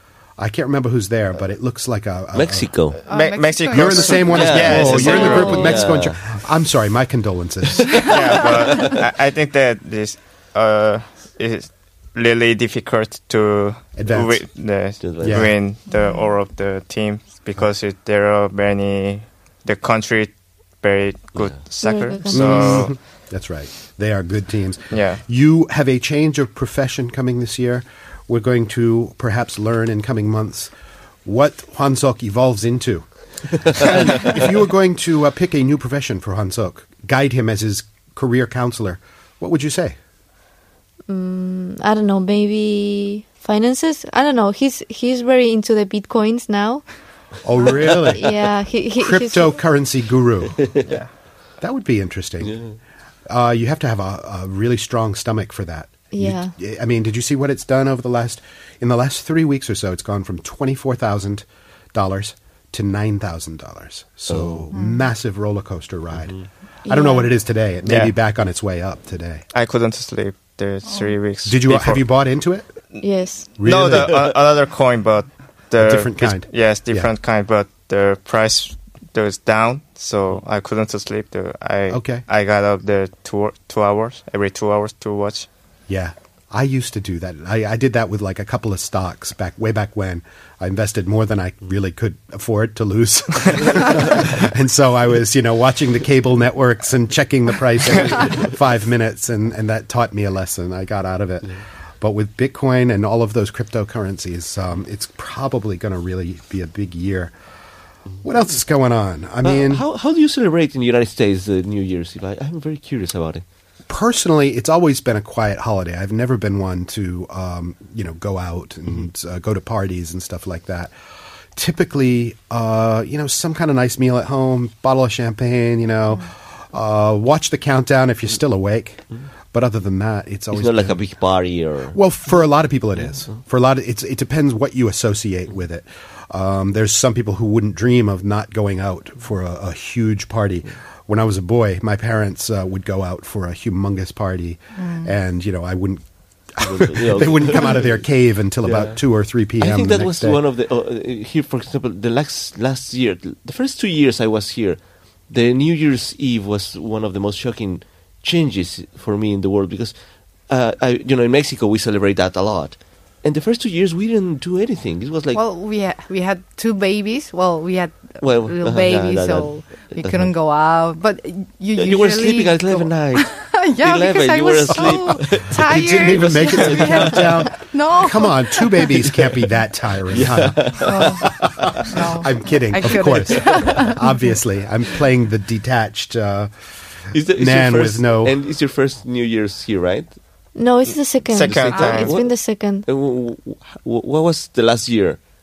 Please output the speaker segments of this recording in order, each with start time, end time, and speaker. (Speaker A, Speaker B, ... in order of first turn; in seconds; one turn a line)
Speaker A: 0.4-2.7
Speaker B: 2.3-3.0
Speaker C: 3.1-5.7
Speaker D: 3.1-5.7
Speaker A: 3.7-8.1
Speaker B: 4.2-6.3
Speaker C: 8.0-22.9
Speaker B: 8.7-9.0
Speaker A: 13.9-14.4
Speaker B: 15.0-15.5
Speaker A: 15.2-15.5
Speaker D: 15.9-16.2
Speaker E: 21.8-22.9
Speaker A: 22.3-30.7
Speaker C: 24.9-25.2
Speaker A: 31.2-33.1
Speaker A: 33.6-40.0
Speaker E: 41.1-46.8
Speaker A: 47.4-48.4
Speaker E: 48.1-49.6
Speaker A: 49.0-50.7
Speaker B: 50.6-50.8
Speaker A: 51.6-52.5
Speaker B: 52.4-52.8
Speaker A: 53.3-66.3
Speaker E: 56.1-56.5
Speaker B: 64.3-64.7
Speaker D: 64.7-65.1
Speaker A: 66.8-69.4
Speaker E: 66.9-67.3
Speaker C: 67.8-68.1
Speaker C: 69.5-72.0
Speaker D: 70.9-71.1
Speaker A: 71.4-72.6
Speaker E: 73.0-73.5
Speaker C: 73.5-85.5
Speaker A: 73.6-74.2
Speaker B: 73.9-74.3
Speaker A: 75.8-77.1
Speaker A: 81.9-82.2
Speaker A: 85.9-107.3
Speaker A: 108.2-109.8
Speaker B: 109.4-113.4
Speaker A: 113.9-120.9
Speaker A: 121.5-131.0
Speaker B: 130.5-132.0
Speaker A: 131.9-146.0
Speaker D: 144.8-145.1
Speaker A: 146.5-150.4
Speaker B: 146.6-148.0
Speaker B: 148.6-149.0
Speaker B: 149.6-159.9
Speaker B: 160.5-165.4
Speaker D: 165.3-179.1
Speaker B: 168.2-170.3
Speaker B: 171.8-177.5
Speaker A: 174.8-186.5
Speaker B: 178.9-179.3
Speaker B: 180.1-182.0
Speaker D: 180.8-184.3
Speaker B: 183.3-183.8
Speaker B: 187.1-190.2
Speaker A: 187.2-188.4
Speaker E: 190.5-192.8
Speaker C: 191.3-192.2
Speaker B: 191.4-195.2
Speaker D: 191.7-192.1